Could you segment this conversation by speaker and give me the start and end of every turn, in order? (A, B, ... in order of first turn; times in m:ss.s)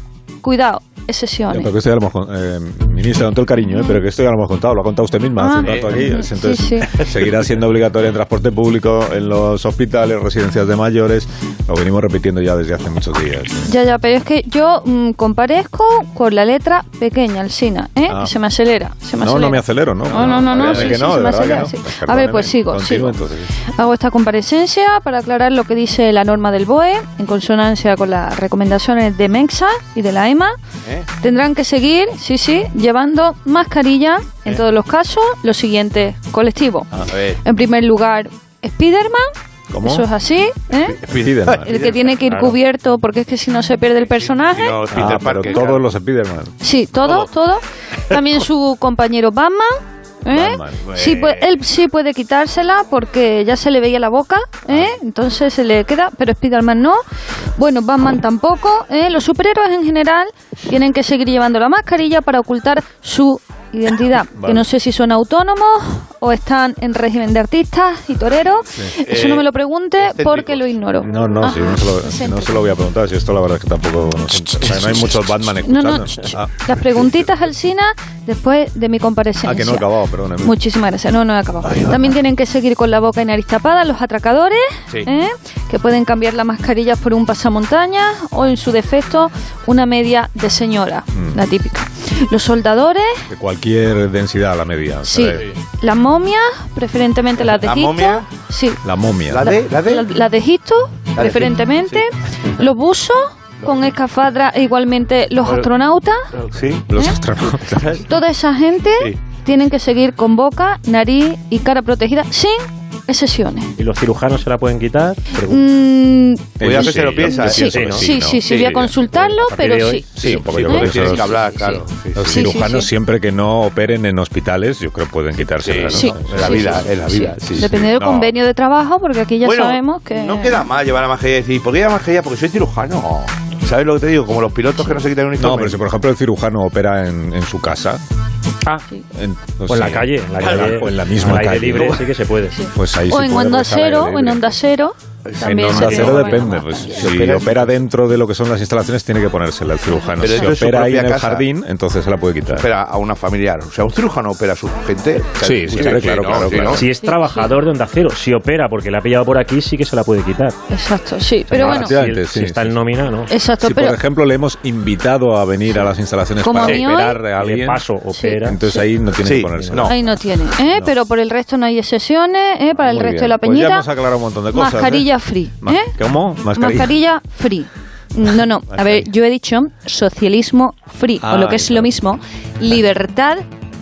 0:00.4-0:01.7 A
0:01.5-0:13.7 B
0:05.4-0:07.0 A
0:05.6-0:05.9 C
0:13.6-0:23.2 A
0:18.1-0:18.3 B
0:19.2-0:23.5 B
0:20.2-0:21.0 C
0:23.7-0:30.6 A
0:31.2-0:39.2 A
0:37.0-0:37.4 C
0:39.7-0:40.1 B
0:39.8-0:41.0 A
0:40.8-0:42.2 C
0:41.1-0:41.9 B
0:41.6-0:44.9 A
0:42.3-0:42.6 D
0:44.3-0:45.8 C
0:44.9-0:46.5 B
0:46.6-0:49.7 A
0:47.0-0:47.3 C
0:50.2-0:57.0 A
0:50.3-0:50.9 B
0:50.9-0:51.4 C
0:54.7-0:54.9 B
0:57.5-1:12.6 A
1:04.4-1:04.7 B
1:09.0-1:09.4 C
1:10.0-1:10.7 C
1:10.9-1:16.5 B
1:15.6-1:33.2 A
1:19.4-1:20.6 B
1:21.6-1:22.0 C
1:33.3-1:35.4 B
1:35.0-1:46.2 A
1:37.5-1:38.3 C
1:38.8-1:39.4 B
1:39.3-1:40.1 C
1:41.1-1:42.0 C
1:46.4-1:46.9 C
1:46.9-1:48.0 B
1:47.5-1:48.1 C
1:47.9-1:53.8 A
1:53.8-1:55.6 D
1:55.4-2:00.0 A
1:56.6-1:58.9 B
1:56.6-1:58.8 C
1:57.7-1:58.1 D
1:59.1-2:01.0 D
2:00.2-2:01.4 B
2:00.2-2:02.5 C
2:00.6-2:02.9 A
2:02.1-2:06.9 B
2:05.6-2:07.9 C
2:05.9-2:10.6 A
2:07.6-2:08.3 B
2:09.4-2:15.8 C
2:15.4-2:18.0 B
2:19.1-2:22.1 B
2:19.7-2:22.6 D
2:20.4-2:22.0 C
2:22.5-2:26.9 A
2:22.7-2:24.5 B
2:25.3-2:27.8 C
2:25.4-2:32.7 B
2:30.1-2:30.5 A
2:30.2-2:31.5 C
2:32.5-2:36.8 C
2:35.4-2:36.8 B
2:36.7-2:40.6 D
2:37.0-2:37.6 A
2:40.7-2:42.0 A
2:41.5-2:43.3 D
2:41.5-2:42.8 B
2:43.3-2:44.0 A
2:43.6-2:47.9 B
2:46.4-2:47.2 A
2:46.6-2:46.9 C
2:47.4-2:48.6 D
2:48.1-2:48.8 A
2:48.4-2:50.9 B
2:49.2-2:50.0 C
2:49.5-2:49.9 D
2:49.8-2:53.9 A
2:52.8-2:56.9 B
2:54.5-2:56.0 A
2:56.5-3:03.4 A
2:58.7-2:59.1 B
3:01.2-3:01.9 B